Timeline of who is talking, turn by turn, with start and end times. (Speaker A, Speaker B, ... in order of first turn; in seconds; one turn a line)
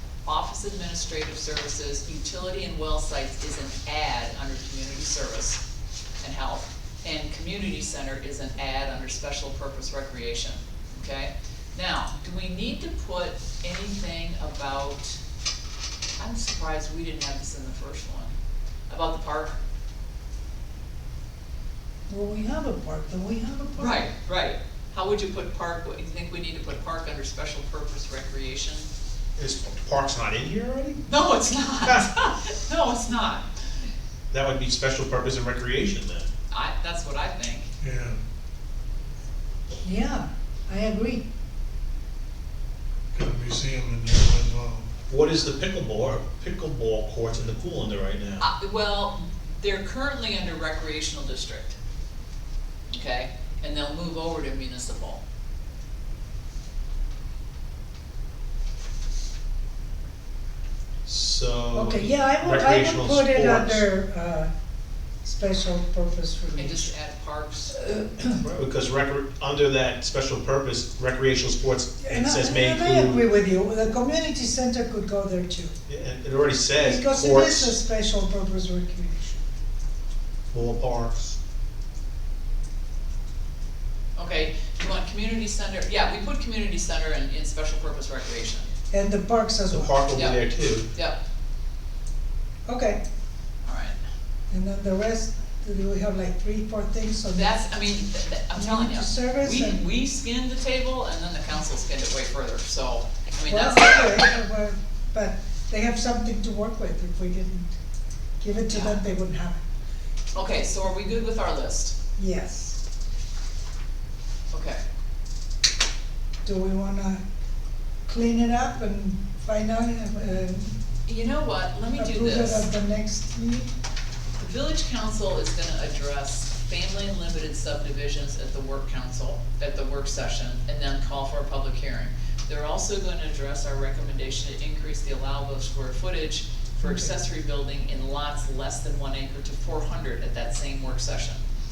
Speaker A: 0.3-5.6
Speaker A: 6.2-15.2
Speaker A: 16.2-18.3
Speaker A: 18.9-19.6
Speaker B: 22.1-24.1
Speaker A: 23.8-28.9
Speaker C: 29.4-31.0
Speaker A: 31.1-33.5
Speaker C: 34.3-36.3
Speaker A: 36.5-37.7
Speaker D: 37.8-38.2
Speaker B: 39.8-41.2
Speaker D: 43.1-44.9
Speaker C: 45.1-48.4
Speaker A: 48.4-51.8
Speaker A: 52.9-55.2
Speaker C: 61.0-63.8
Speaker B: 61.7-64.5
Speaker B: 65.2-66.9
Speaker A: 66.6-67.8
Speaker B: 67.9-68.3
Speaker C: 68.2-73.2
Speaker B: 72.0-75.7
Speaker C: 75.9-77.7
Speaker B: 76.8-79.4
Speaker C: 80.5-81.3
Speaker A: 84.2-88.7
Speaker B: 88.9-89.9
Speaker C: 89.7-90.8
Speaker A: 90.1-91.2
Speaker B: 92.7-93.0
Speaker A: 93.6-94.0
Speaker B: 94.5-97.5
Speaker A: 97.3-104.2
Speaker B: 98.5-99.8
Speaker B: 103.5-107.7
Speaker B: 108.4-109.6
Speaker A: 108.7-109.0
Speaker A: 110.3-112.0
Speaker B: 112.2-112.8
Speaker A: 114.5-114.8
Speaker B: 116.4-117.2
Speaker B: 118.1-120.7
Speaker A: 121.0-122.7
Speaker B: 122.0-123.7
Speaker A: 124.4-141.4
Speaker B: 136.8-137.1